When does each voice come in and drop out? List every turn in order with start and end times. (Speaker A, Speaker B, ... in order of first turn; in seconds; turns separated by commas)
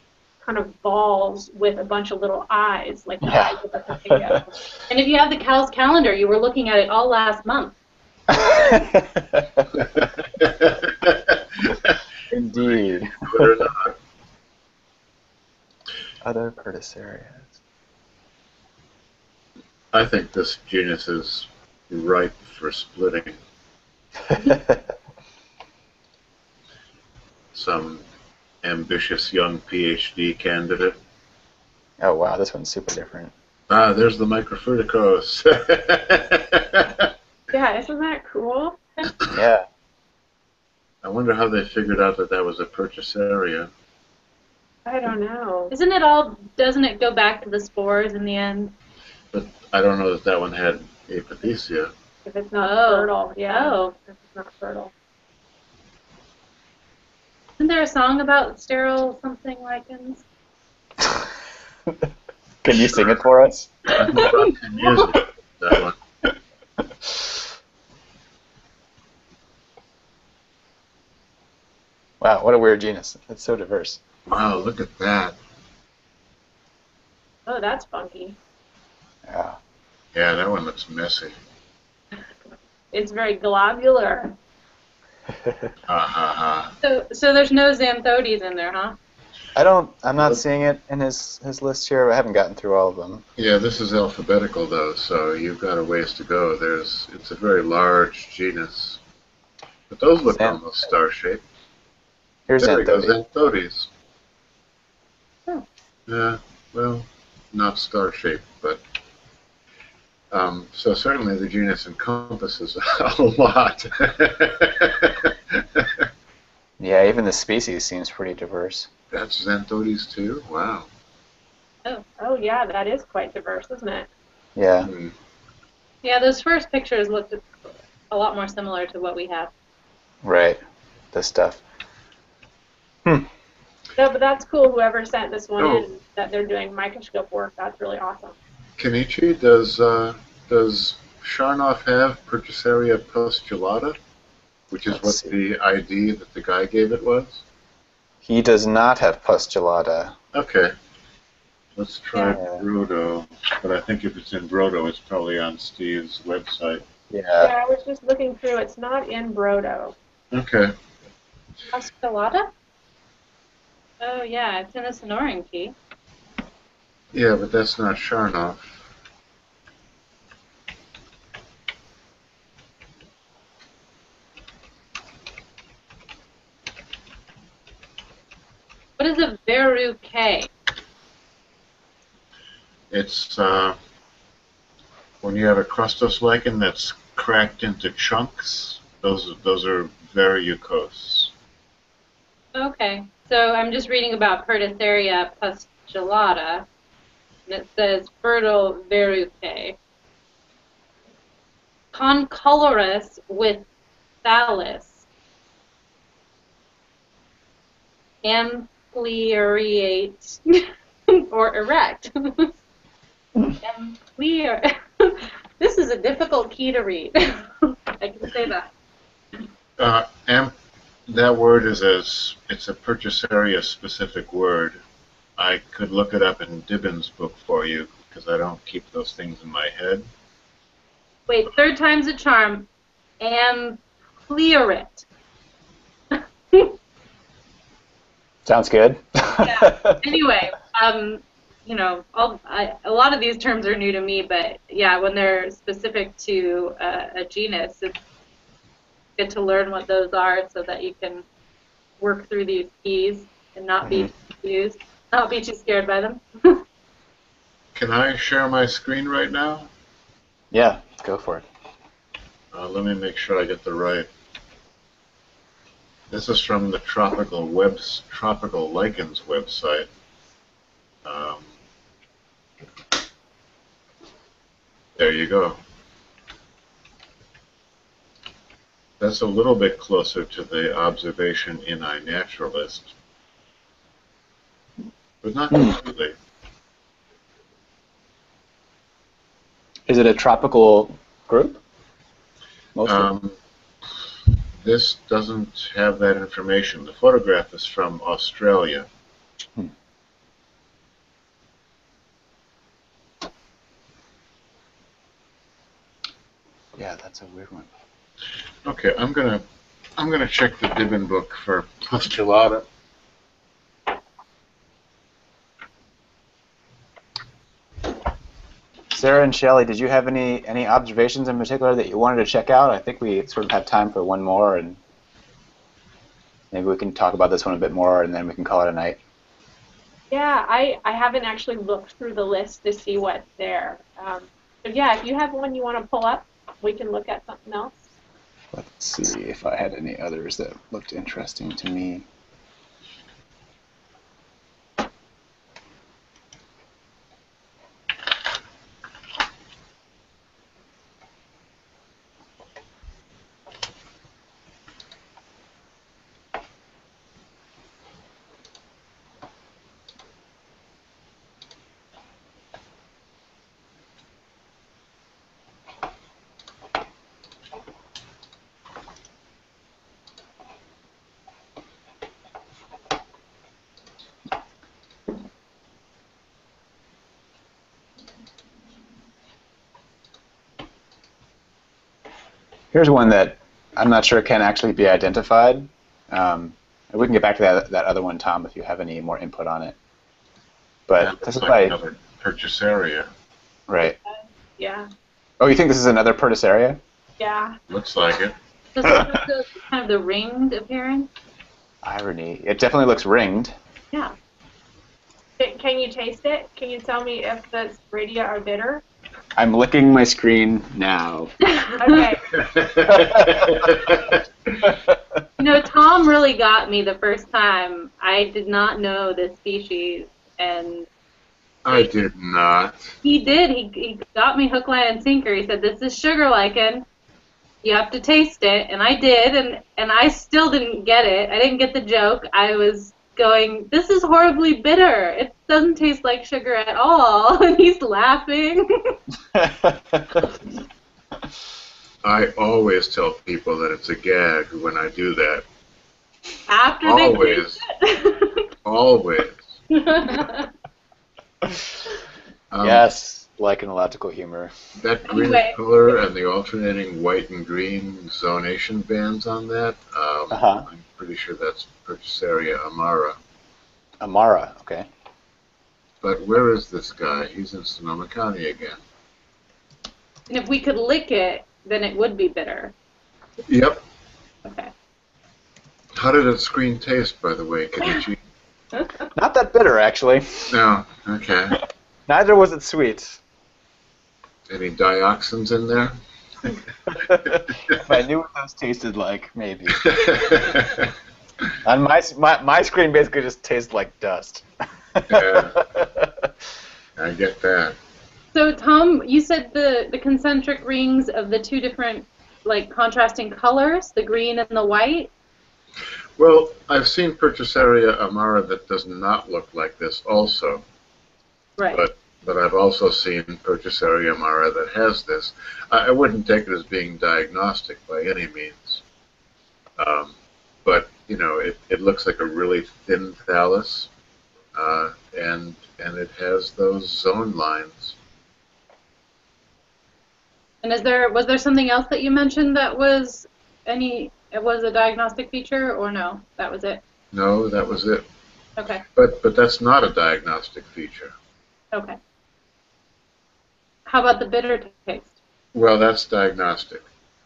Speaker A: 0.4-4.6, Speaker B: 3.2-4.4, Speaker C: 4.9-7.7, Speaker B: 8.3-9.8, Speaker D: 10.3-12.0, Speaker B: 12.3-13.7, Speaker D: 13.2-13.9, Speaker B: 16.2-17.5, Speaker D: 19.9-23.4, Speaker B: 24.3-24.8, Speaker D: 27.5-28.0, Speaker D: 28.6-31.0, Speaker B: 32.0-33.3, Speaker D: 33.7-37.1, Speaker A: 37.5-39.1, Speaker B: 39.3-39.6, Speaker D: 41.0-43.7, Speaker A: 44.8-45.7, Speaker C: 45.7-48.7, Speaker D: 49.3-51.9, Speaker A: 52.2-54.9, Speaker C: 52.6-53.9, Speaker C: 57.6-60.2, Speaker B: 62.6-64.2, Speaker D: 63.9-65.9, Speaker C: 64.1-65.1, Speaker B: 72.2-74.0, Speaker D: 74.3-75.4, Speaker A: 77.5-78.4, Speaker B: 79.3-79.6, Speaker D: 80.1-81.3, Speaker A: 82.9-84.3, Speaker D: 85.9-86.7, Speaker C: 86.8-89.0, Speaker B: 89.5-93.2, Speaker D: 93.4-99.0, Speaker D: 99.9-101.4, Speaker B: 100.3-100.6, Speaker B: 102.5-103.1, Speaker D: 102.6-103.9, Speaker D: 106.1-108.8, Speaker D: 110.3-116.1, Speaker B: 116.8-118.9, Speaker D: 119.1-120.9, Speaker A: 122.2-124.1, Speaker B: 124.5-124.9, Speaker D: 124.8-125.1, Speaker C: 126.0-127.5, Speaker C: 128.1-129.5, Speaker B: 130.2-130.6, Speaker B: 131.1-131.6, Speaker A: 134.0-138.3, Speaker D: 135.6-135.9, Speaker D: 138.8-143.9, Speaker D: 144.7-147.4, Speaker B: 144.9-145.3, Speaker B: 148.2-150.1, Speaker D: 150.3-150.7, Speaker D: 151.8-156.8, Speaker B: 152.3-152.6, Speaker B: 157.1-157.5, Speaker A: 157.4-159.9, Speaker D: 160.3-160.7, Speaker C: 161.7-162.5, Speaker C: 164.0-165.7, Speaker D: 167.1-168.9, Speaker C: 179.0-180.5, Speaker D: 182.9-183.8, Speaker D: 185.2-191.3, Speaker C: 192.5-196.7, Speaker C: 197.5-199.8, Speaker C: 201.9-203.6, Speaker C: 204.2-205.0, Speaker C: 208.2-212.5, Speaker C: 213.6-218.7, Speaker D: 219.8-220.5, Speaker D: 221.1-224.8, Speaker D: 225.4-230.1, Speaker C: 231.3-232.7, Speaker C: 233.2-235.0, Speaker C: 236.1-236.8, Speaker B: 238.4-240.0, Speaker C: 239.4-247.9, Speaker C: 249.2-251.2, Speaker C: 252.0-256.6, Speaker D: 257.7-259.7, Speaker B: 260.5-261.4, Speaker D: 262.5-264.1, Speaker D: 266.1-269.9, Speaker D: 271.0-271.5, Speaker D: 275.0-275.6, Speaker D: 279.0-282.9, Speaker D: 285.2-286.1, Speaker B: 289.9-291.6, Speaker B: 292.8-293.1, Speaker D: 292.8-293.4, Speaker D: 293.9-298.9, Speaker B: 306.8-307.7, Speaker D: 308.6-309.4, Speaker D: 310.0-312.6, Speaker B: 318.9-324.8, Speaker B: 326.5-329.0, Speaker A: 330.1-337.8, Speaker B: 338.5-342.1, Speaker B: 382.7-389.8, Speaker B: 390.9-391.8, Speaker D: 391.0-393.1, Speaker B: 393.7-393.9, Speaker A: 394.1-394.9, Speaker B: 395.4-396.8, Speaker A: 397.2-397.6, Speaker D: 397.7-398.4, Speaker C: 398.7-401.1, Speaker B: 401.8-403.5, Speaker A: 405.4-408.8, Speaker B: 409.4-411.3, Speaker C: 411.5-412.1, Speaker A: 411.8-412.4, Speaker D: 412.3-414.2, Speaker B: 412.9-413.7, Speaker B: 414.6-415.0, Speaker C: 415.4-420.9, Speaker D: 421.6-422.9, Speaker C: 423.0-426.8, Speaker C: 427.6-439.0, Speaker B: 439.3-440.3, Speaker D: 442.0-445.4, Speaker C: 446.4-448.5, Speaker D: 446.8-447.6, Speaker D: 448.6-449.4, Speaker C: 449.7-450.5, Speaker D: 452.5-452.9, Speaker B: 452.6-454.5, Speaker D: 454.8-463.2, Speaker C: 455.1-455.6, Speaker B: 460.3-460.6, Speaker B: 464.0-464.9, Speaker D: 466.0-468.8, Speaker C: 470.3-472.7, Speaker D: 473.4-473.8, Speaker C: 474.4-474.7, Speaker D: 475.9-478.2, Speaker B: 479.1-480.6, Speaker D: 480.5-481.6, Speaker B: 482.1-483.2, Speaker D: 484.5-486.6, Speaker B: 486.9-490.6, Speaker D: 487.2-487.8, Speaker D: 489.8-490.9, Speaker B: 491.6-496.3, Speaker D: 495.1-495.6, Speaker D: 497.0-497.8, Speaker C: 498.3-505.1, Speaker D: 506.2-510.6, Speaker C: 511.6-511.9, Speaker D: 511.7-518.8, Speaker D: 519.8-523.9, Speaker D: 524.5-528.0, Speaker C: 530.6-536.8, Speaker D: 537.1-538.0, Speaker C: 538.6-538.8, Speaker D: 538.9-541.1, Speaker C: 541.7-542.0, Speaker C: 543.9-545.2, Speaker D: 545.5-546.9